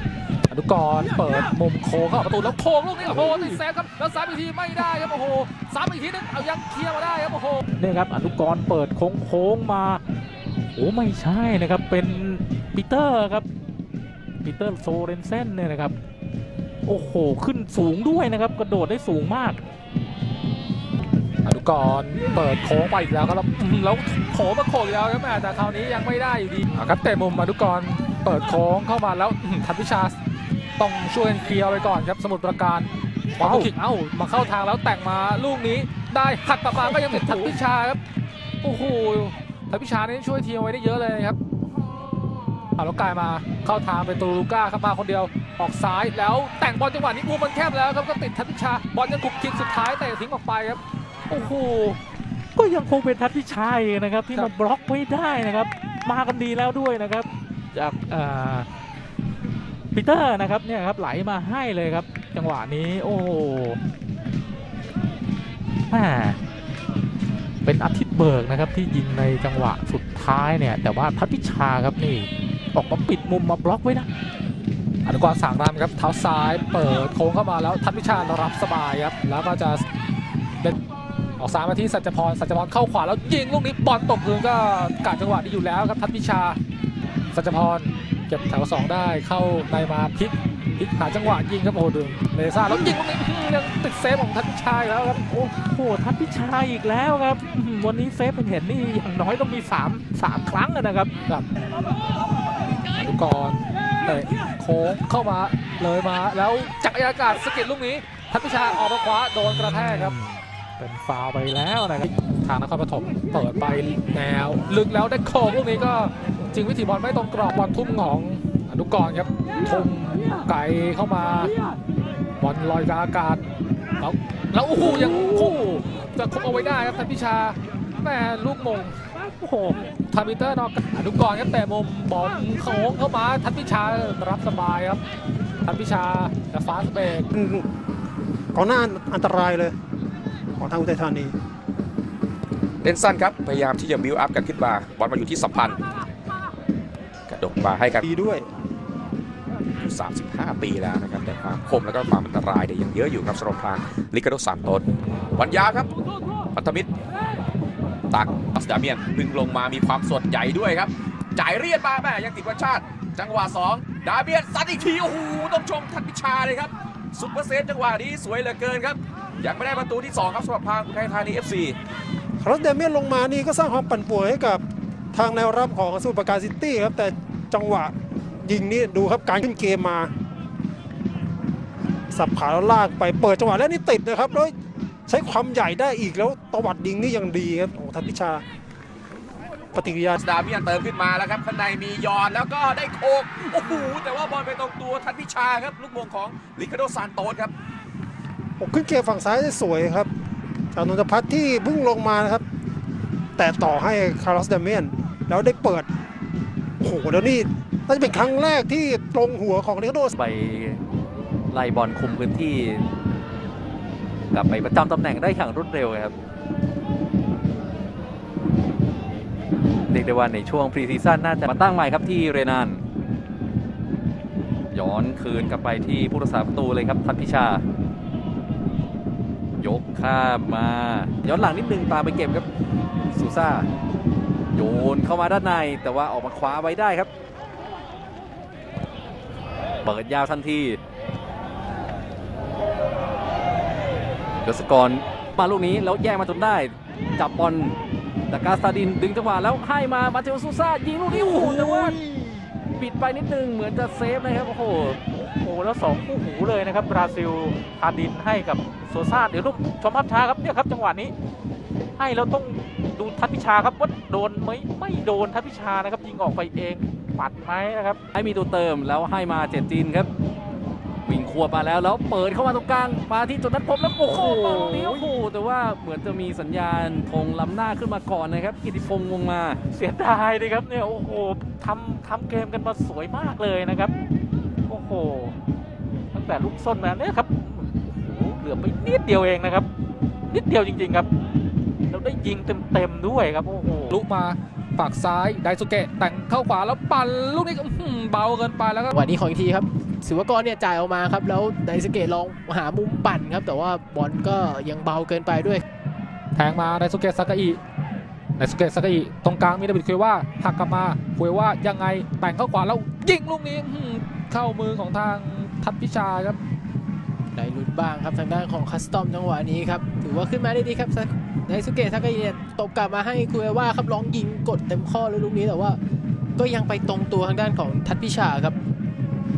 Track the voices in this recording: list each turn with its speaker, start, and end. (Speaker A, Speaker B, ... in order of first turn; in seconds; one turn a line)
Speaker A: 0.5-7.6
Speaker B: 3.1-3.6
Speaker B: 7.8-10.0
Speaker B: 10.7-13.5
Speaker B: 14.4-15.9
Speaker B: 16.9-19.6
Speaker A: 21.4-30.1
Speaker A: 30.8-38.0
Speaker B: 33.4-33.7
Speaker B: 36.7-37.5
Speaker A: 38.6-41.4
Speaker A: 42.8-50.8
Speaker B: 51.3-52.0
Speaker B: 52.5-58.7
Speaker B: 59.9-63.8
Speaker B: 65.9-66.4
Speaker B: 67.6-74.1
Speaker A: 75.0-79.8
Speaker A: 81.4-86.6
Speaker A: 87.3-95.2
Speaker B: 95.3-101.1
Speaker A: 103.0-110.2
Speaker B: 109.5-112.1
Speaker A: 112.0-121.5
Speaker A: 122.4-123.4
Speaker A: 124.0-135.0
Speaker A: 135.6-137.3
Speaker C: 137.3-137.6
Speaker C: 138.5-139.7
Speaker C: 140.6-141.3
Speaker D: 142.8-145.8
Speaker D: 147.3-148.0
Speaker C: 148.0-148.4
Speaker D: 149.7-155.9
Speaker D: 156.5-156.9
Speaker D: 158.1-171.8
Speaker C: 172.4-180.1
Speaker C: 182.1-184.5
Speaker C: 185.1-188.4
Speaker C: 189.7-190.2
Speaker D: 190.2-197.5
Speaker C: 198.6-200.1
Speaker C: 200.7-202.4
Speaker C: 203.4-205.9
Speaker C: 206.8-210.1
Speaker E: 210.1-210.8
Speaker E: 211.5-212.8
Speaker E: 214.3-216.1
Speaker E: 219.9-222.8
Speaker E: 224.7-227.6
Speaker E: 229.6-232.4
Speaker E: 233.1-233.7
Speaker E: 234.5-237.1
Speaker E: 239.8-240.8
Speaker E: 244.4-247.7
Speaker E: 248.3-252.0
Speaker B: 251.1-252.0
Speaker E: 252.8-255.0
Speaker B: 255.1-261.1
Speaker B: 262.0-268.0
Speaker E: 268.1-270.1
Speaker E: 271.0-279.6
Speaker B: 274.1-275.1
Speaker B: 279.7-283.9
Speaker B: 284.7-285.4
Speaker B: 286.1-289.7
Speaker B: 290.3-291.1
Speaker B: 291.9-293.9
Speaker A: 293.9-298.9
Speaker F: 298.9-305.6
Speaker A: 306.3-307.6
Speaker A: 308.4-316.4
Speaker F: 317.3-325.8
Speaker F: 326.4-328.6